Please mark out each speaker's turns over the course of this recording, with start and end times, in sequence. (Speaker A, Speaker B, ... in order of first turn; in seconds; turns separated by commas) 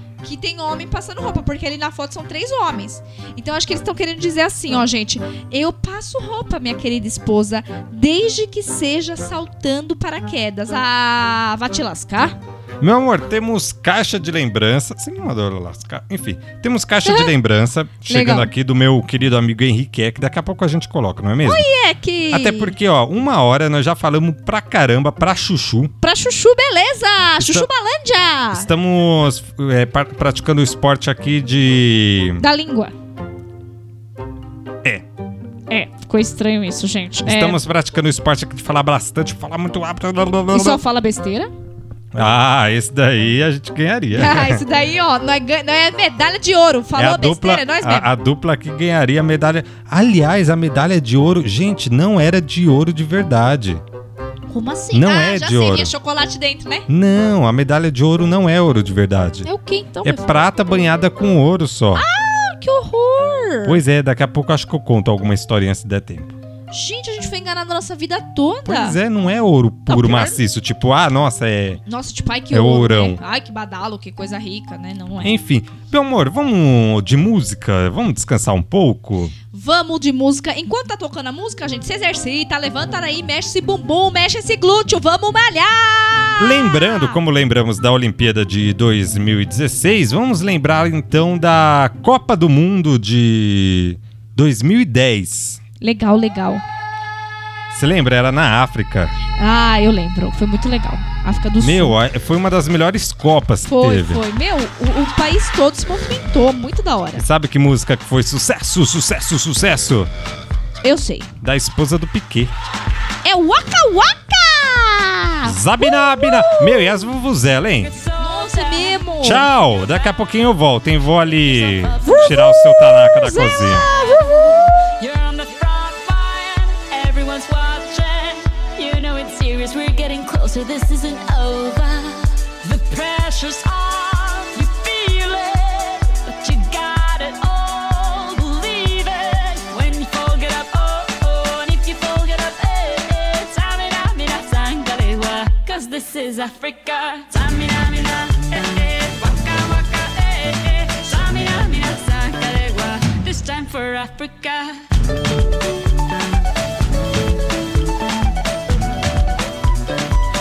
Speaker A: 0.2-12.4, Speaker B: 12.8-21.7, Speaker A: 17.0-17.3, Speaker A: 18.1-18.5, Speaker A: 21.4-22.7, Speaker B: 22.3-25.9, Speaker A: 26.0-28.7, Speaker B: 27.4-27.7, Speaker B: 28.5-32.4, Speaker A: 32.4-32.9, Speaker A: 35.7-37.6, Speaker B: 37.2-40.8, Speaker A: 40.5-41.5, Speaker B: 42.1-44.6, Speaker A: 44.1-48.1, Speaker B: 46.9-53.8, Speaker A: 54.5-56.9, Speaker B: 54.9-55.9, Speaker B: 56.9-59.5, Speaker A: 59.4-60.5, Speaker B: 60.0-62.0, Speaker A: 61.9-63.8, Speaker B: 63.6-66.3, Speaker A: 66.7-69.0, Speaker B: 68.6-71.8, Speaker A: 69.9-70.4, Speaker A: 71.8-75.3, Speaker B: 72.5-73.2, Speaker B: 75.2-79.3, Speaker A: 79.5-87.2, Speaker B: 86.4-95.6, Speaker A: 95.8-96.6, Speaker B: 97.7-99.1, Speaker A: 99.4-102.0, Speaker B: 101.6-104.2, Speaker A: 103.7-107.2, Speaker B: 107.1-110.1, Speaker A: 110.8-111.3, Speaker B: 111.4-112.5, Speaker A: 113.2-117.0, Speaker B: 115.4-118.0, Speaker C: 117.8-119.2, Speaker A: 118.2-119.5, Speaker B: 119.2-123.8, Speaker C: 121.7-122.2, Speaker A: 122.0-124.7, Speaker C: 125.0-154.8